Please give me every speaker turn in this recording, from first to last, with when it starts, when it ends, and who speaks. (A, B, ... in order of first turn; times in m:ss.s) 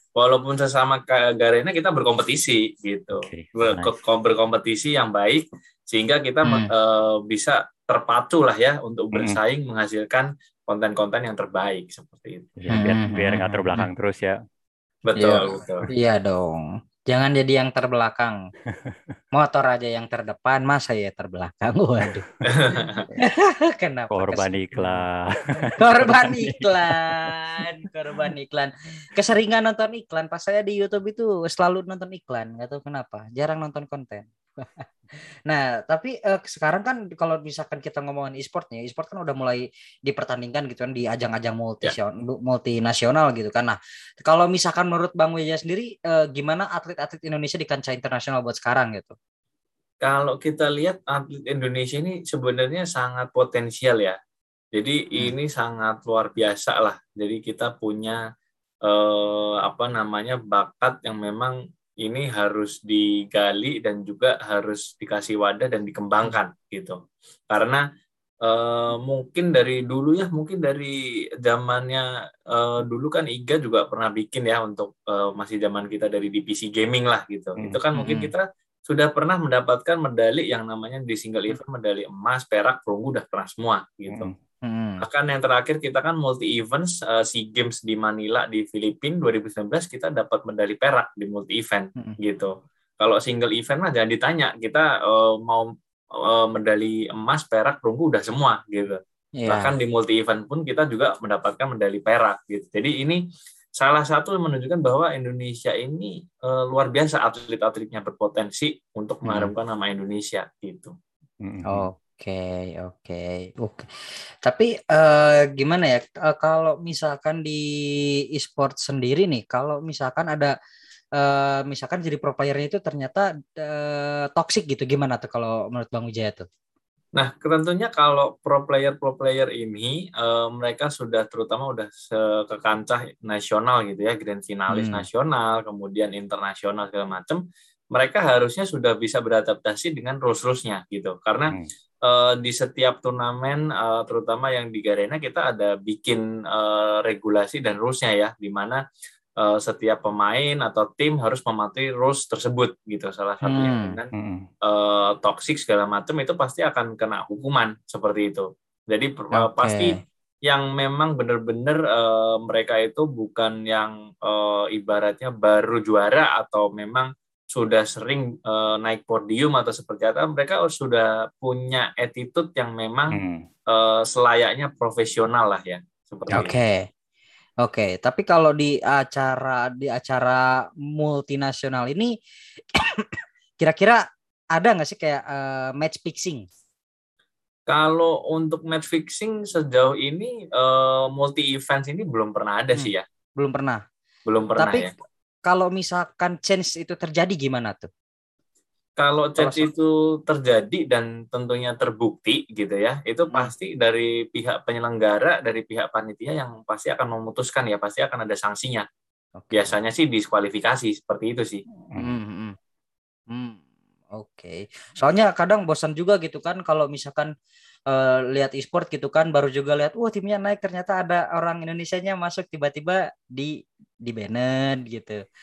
0:00.2-0:12.5 A
0:03.2-0:03.9 B
0:06.4-0:06.7 C
0:09.1-0:09.4 B
0:12.6-0:14.3 B
0:12.7-0:13.9 C
0:15.0-0:15.9 A
0:15.2-0:18.4 C
0:18.7-0:19.1 B
0:19.3-0:22.2 C
0:22.1-0:22.4 B
0:22.4-0:23.1 A
0:23.2-0:25.0 C
0:24.1-0:27.6 B
0:25.8-0:34.8 C
0:35.4-0:49.1 C
0:50.0-0:54.2 A
0:54.7-0:58.2 A
0:58.8-1:07.8 A
1:08.4-1:24.3 A
1:17.9-1:18.3 C
1:24.1-1:24.3 B
1:24.6-1:25.0 C
1:25.0-1:43.2 A
1:39.4-1:39.7 C
1:43.8-1:51.0 A
1:51.4-1:51.9 B
1:51.7-1:53.9 C
1:54.4-2:00.5 C
2:01.2-2:06.5 C
2:07.1-2:17.4 A
2:14.7-2:15.0 C
2:17.9-2:28.8 A
2:29.4-2:34.1 A
2:33.4-2:34.0 C
2:34.1-2:34.5 B
2:34.6-2:53.2 A
2:39.3-2:40.0 C
2:53.1-2:53.5 B
2:53.7-2:56.6 A
2:56.3-2:56.9 C
2:57.6-3:02.1 C
3:02.7-3:04.0 C
3:04.5-3:06.4 C
3:07.7-3:13.0 A
3:12.7-3:13.8 C
3:14.2-3:14.9 A
3:14.6-3:14.9 C
3:15.4-3:17.9 C
3:19.0-3:28.8 A
3:19.4-3:19.7 C
3:29.4-3:29.7 C
3:29.5-3:31.6 A
3:32.0-3:32.6 C
3:33.3-3:33.6 C
3:34.1-3:37.3 C
3:37.9-3:43.5 C
3:44.0-3:45.2 C